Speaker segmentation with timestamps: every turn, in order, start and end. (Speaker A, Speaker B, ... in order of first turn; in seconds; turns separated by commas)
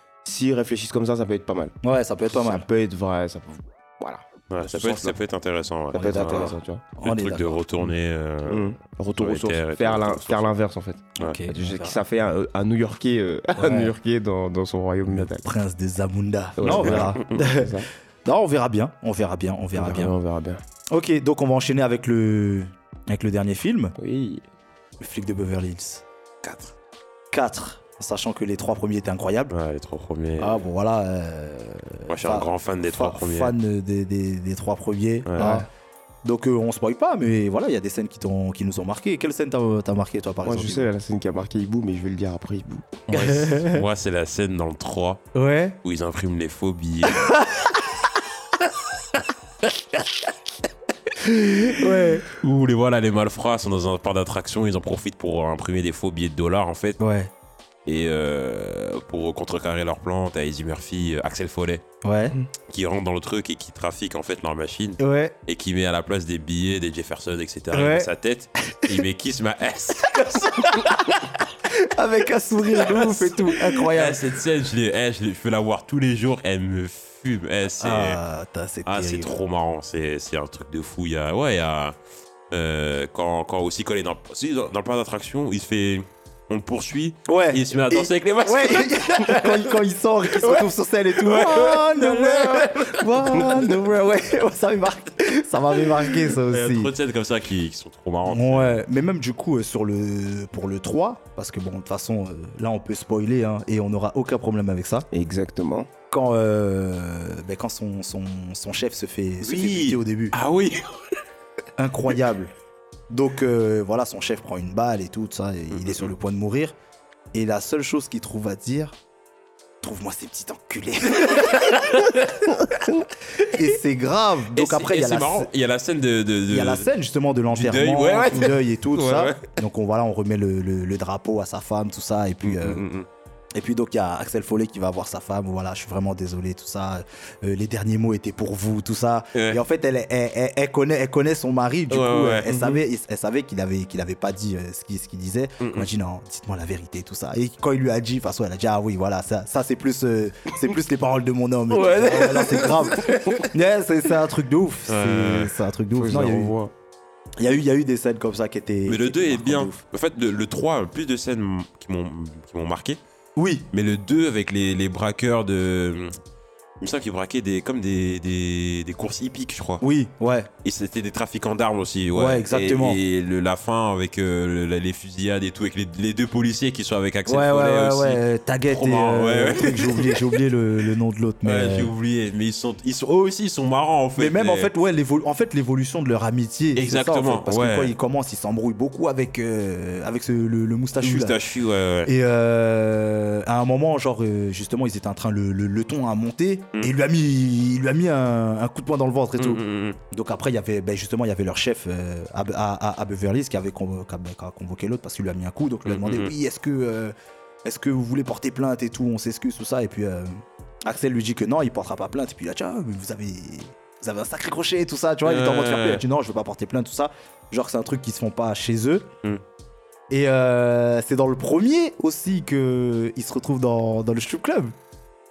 Speaker A: 0.2-1.8, Speaker B: 1.8-2.6, Speaker A: 2.3-5.2, Speaker C: 4.5-10.5, Speaker A: 5.9-6.8, Speaker B: 5.9-7.6, Speaker A: 8.4-15.5, Speaker B: 11.2-12.0, Speaker B: 13.6-13.9, Speaker B: 15.1-20.1, Speaker A: 16.6-17.9, Speaker C: 16.6-17.4, Speaker A: 19.7-20.6, Speaker B: 20.9-23.9, Speaker A: 24.0-24.4, Speaker B: 25.0-26.7, Speaker B: 27.3-29.5, Speaker C: 29.5-30.6, Speaker B: 30.4-35.7, Speaker C: 32.1-33.5, Speaker C: 35.3-35.5, Speaker A: 35.4-35.7, Speaker B: 36.2-40.9, Speaker A: 40.4-43.0, Speaker C: 43.1-45.3, Speaker B: 43.1-43.8, Speaker B: 45.3-45.8, Speaker C: 45.8-47.4, Speaker B: 47.2-47.7, Speaker B: 51.2-52.3, Speaker C: 52.3-57.0, Speaker B: 57.0-57.3, Speaker C: 57.8-61.8, Speaker B: 62.0-62.4, Speaker C: 62.7-70.9, Speaker B: 65.0-65.3, Speaker B: 67.7-68.1, Speaker B: 70.1-74.2, Speaker C: 72.8-78.2, Speaker B: 77.8-79.3, Speaker C: 78.8-82.0, Speaker C: 82.5-89.8, Speaker B: 87.3-96.9, Speaker C: 90.3-93.7, Speaker C: 96.1-98.8, Speaker B: 98.3-105.1, Speaker A: 105.1-105.9, Speaker B: 106.1-110.3, Speaker C: 109.4-111.1, Speaker B: 111.8-112.5, Speaker B: 113.1-116.7, Speaker C: 115.7-116.1, Speaker B: 117.3-119.0, Speaker B: 119.8-125.5, Speaker C: 121.2-122.4, Speaker C: 124.5-126.9, Speaker B: 126.5-132.8, Speaker C: 127.5-129.5, Speaker C: 132.4-133.1, Speaker B: 133.5-156.5, Speaker C: 139.3-139.6, Speaker C: 141.9-142.8, Speaker C: 145.6-145.9, Speaker C: 151.7-153.5, Speaker C: 154.9-155.6, Speaker A: 155.9-156.7, Speaker B: 157.4-159.8, Speaker C: 158.9-163.0, Speaker B: 163.3-163.7, Speaker C: 163.7-166.1, Speaker C: 166.8-169.8, Speaker B: 169.8-170.5, Speaker C: 170.6-180.4, Speaker B: 172.1-173.0, Speaker B: 177.3-181.9, Speaker C: 181.4-184.7, Speaker B: 184.2-191.3, Speaker C: 186.8-187.9, Speaker C: 191.0-192.1, Speaker B: 192.1-207.1, Speaker C: 199.4-200.0, Speaker C: 205.8-206.3, Speaker B: 207.6-219.1, Speaker C: 215.2-216.0, Speaker B: 220.1-224.7